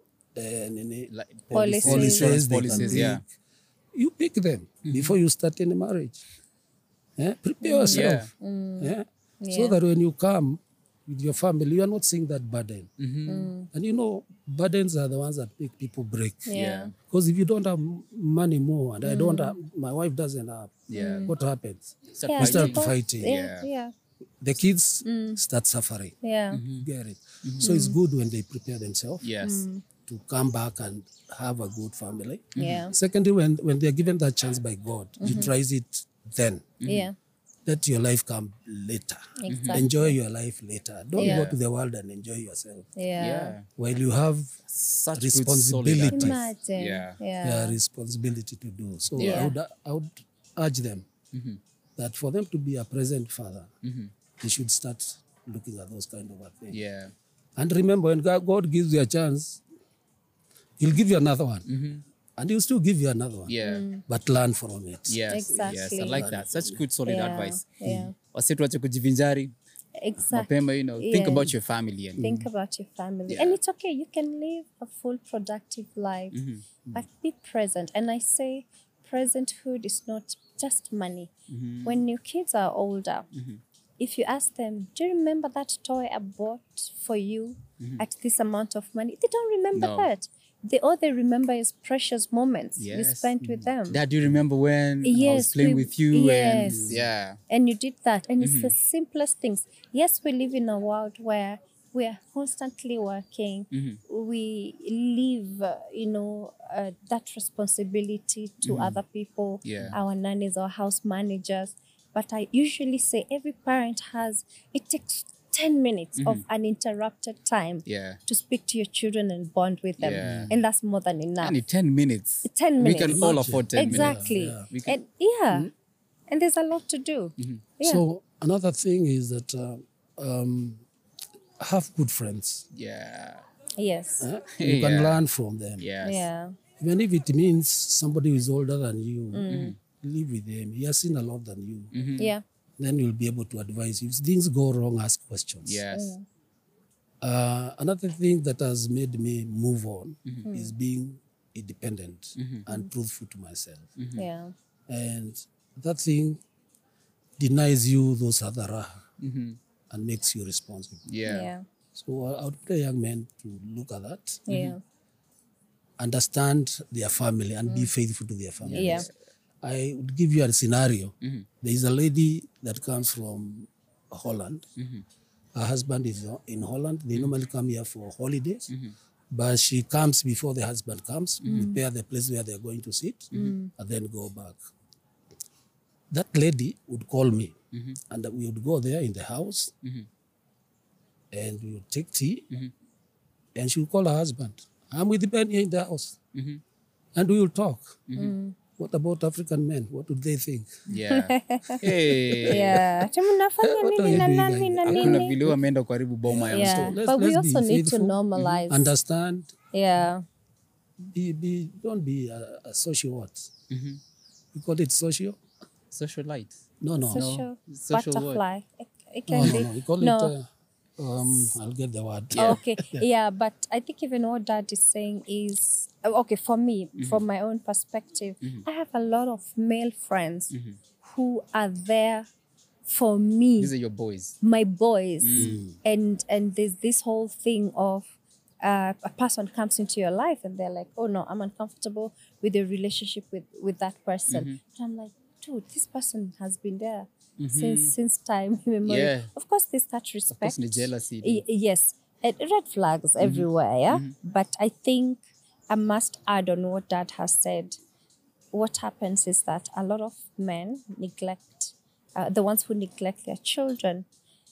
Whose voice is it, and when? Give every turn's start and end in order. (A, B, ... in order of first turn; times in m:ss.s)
0:00.4-0:03.3 A
0:01.1-0:03.2 B
0:01.5-0:03.1 C
0:03.9-0:06.2 A
0:04.8-0:05.2 B
0:07.2-0:12.9 A
0:07.6-0:09.8 C
0:07.9-0:08.3 B
0:13.0-0:13.5 B
0:13.3-0:13.7 C
0:13.7-0:16.5 A
0:16.5-0:16.9 C
0:16.5-0:16.9 B
0:17.0-0:23.4 A
0:19.0-0:19.6 C
0:20.9-0:21.3 B
0:20.9-0:21.3 C
0:22.2-0:23.7 B
0:22.2-0:23.9 C
0:24.4-0:26.2 A
0:25.0-0:25.4 C
0:26.2-0:26.6 C
0:26.5-0:26.9 B
0:26.7-0:29.3 A
0:27.4-0:27.7 B
0:27.6-0:28.0 C
0:29.2-0:29.7 B
0:29.4-0:29.8 C
0:30.0-0:36.8 A
0:32.6-0:32.9 B
0:32.6-0:32.9 C
0:35.2-0:35.5 C
0:36.8-0:37.1 B
0:36.8-0:37.2 C
0:37.6-0:42.9 A
0:39.4-0:40.2 C
0:39.5-0:39.8 B
0:41.2-0:41.5 C
0:41.2-0:41.6 B
0:43.0-0:43.6 C
0:43.2-0:43.7 B
0:43.8-0:44.6 A
0:44.7-0:47.2 B
0:45.2-0:46.5 A
0:46.1-0:47.8 C
0:47.4-0:51.1 A
0:49.2-0:49.5 B
0:49.2-0:49.6 C
0:51.3-0:51.6 B
0:52.0-0:53.7 A
0:53.8-0:54.1 B
0:54.4-0:56.8 A
0:56.7-0:57.1 B
0:57.6-0:59.6 A
1:00.8-1:01.6 A
1:01.6-1:02.0 B
1:02.4-1:06.8 A
1:03.5-1:03.9 B
1:03.6-1:04.0 C
1:05.1-1:09.5 B
1:05.3-1:06.3 C
1:07.1-1:08.1 C
1:10.0-1:11.5 C
1:10.3-1:12.3 B
1:12.2-1:16.4 C
1:12.2-1:12.5 A
1:13.3-1:13.6 B
1:16.3-1:16.6 B
1:16.9-1:21.3 C
1:21.5-1:22.0 B
1:21.8-1:23.3 C
1:23.3-1:23.6 B
1:24.0-1:34.0 C
1:29.7-1:30.1 B
1:32.8-1:33.4 B
1:33.4-1:33.7 A
1:33.9-1:37.4 B
1:35.0-1:37.0 C
1:36.7-1:37.0 A
1:37.5-2:01.6 C
1:38.4-1:38.7 B
1:43.7-1:44.0 B
1:48.6-1:49.0 B
1:49.6-1:50.0 B
1:56.2-1:56.4 B
1:57.9-1:58.2 B
2:00.0-2:00.6 B
2:00.2-2:00.5 A
2:01.4-2:05.0 B
2:02.4-2:05.7 C
2:03.0-2:04.7 A
2:06.3-2:08.0 C
2:07.4-2:07.6 B
2:07.8-2:10.8 A
2:11.6-2:12.6 A
2:12.7-2:13.4 B
2:13.8-2:14.3 C
2:14.2-2:15.9 A
2:14.6-2:15.2 B
2:15.8-2:16.3 B
2:16.0-2:16.6 C
2:16.8-2:21.9 A
2:19.3-2:19.8 C
2:19.5-2:19.8 B
2:21.9-2:22.3 B
2:22.2-2:22.4 C
2:22.8-2:25.8 A
2:25.6-2:26.2 B
2:25.9-2:26.2 C
2:27.2-2:33.9 A
2:30.4-2:30.7 C
2:32.4-2:32.6 B
2:34.0-2:34.2 B
2:34.2-2:34.5 C
2:34.9-2:36.4 A
2:37.4-2:39.0 A
2:39.2-2:39.6 B
2:39.9-2:41.1 A
2:41.1-2:41.5 B
2:41.2-2:41.6 C
2:41.9-2:44.5 A
2:44.5-2:44.8 C
2:44.5-2:44.8 B
2:46.0-2:49.1 A
2:48.6-2:49.1 B
2:48.7-2:49.1 C
2:49.6-2:54.7 A
2:51.2-2:51.5 B
2:54.8-2:55.1 B
2:55.6-2:58.7 A
2:58.7-2:58.9 B
2:59.3-3:04.6 A
3:01.4-3:01.7 B
3:01.5-3:01.8 C
3:03.3-3:03.7 C
3:06.1-3:07.6 A
3:07.7-3:08.0 B
3:08.1-3:09.7 A
3:09.8-3:10.1 B
3:11.3-3:12.5 A
3:13.6-3:16.2 A
3:16.3-3:16.6 B
3:17.2-3:18.0 A
3:18.1-3:18.4 B
3:18.2-3:18.6 C
3:18.8-3:20.8 A
3:20.9-3:22.8 B
3:20.9-3:21.8 C
3:21.8-3:22.8 A
3:22.4-3:25.4 C
3:23.6-3:25.6 A
3:24.9-3:27.0 B
3:26.2-3:28.2 A
3:26.5-3:28.9 C
3:28.4-3:28.6 B
3:28.7-3:29.5 A
3:29.7-3:30.2 C
3:31.0-3:33.5 A
3:33.7-3:34.0 B
3:34.5-3:35.4 A
3:35.9-3:36.6 B
3:36.8-3:37.4 A
3:37.0-3:40.3 C
3:37.1-3:38.4 B
3:39.3-3:40.4 A
3:41.0-3:43.0 A
3:41.2-3:41.6 C
3:42.3-3:42.6 B
3:42.4-3:52.3 C
3:47.0-3:47.2 B
3:50.5-3:50.8 B
3:52.9-3:53.7 C
3:53.6-3:54.4 B
3:54.4-4:17.8 C
3:55.2-3:55.6 B
3:55.4-3:55.8 A
4:04.3-4:04.6 B
4:07.4-4:08.0 B
4:08.8-4:09.3 B
4:10.3-4:11.4 B
4:13.2-4:14.2 B
4:18.5-4:24.1 C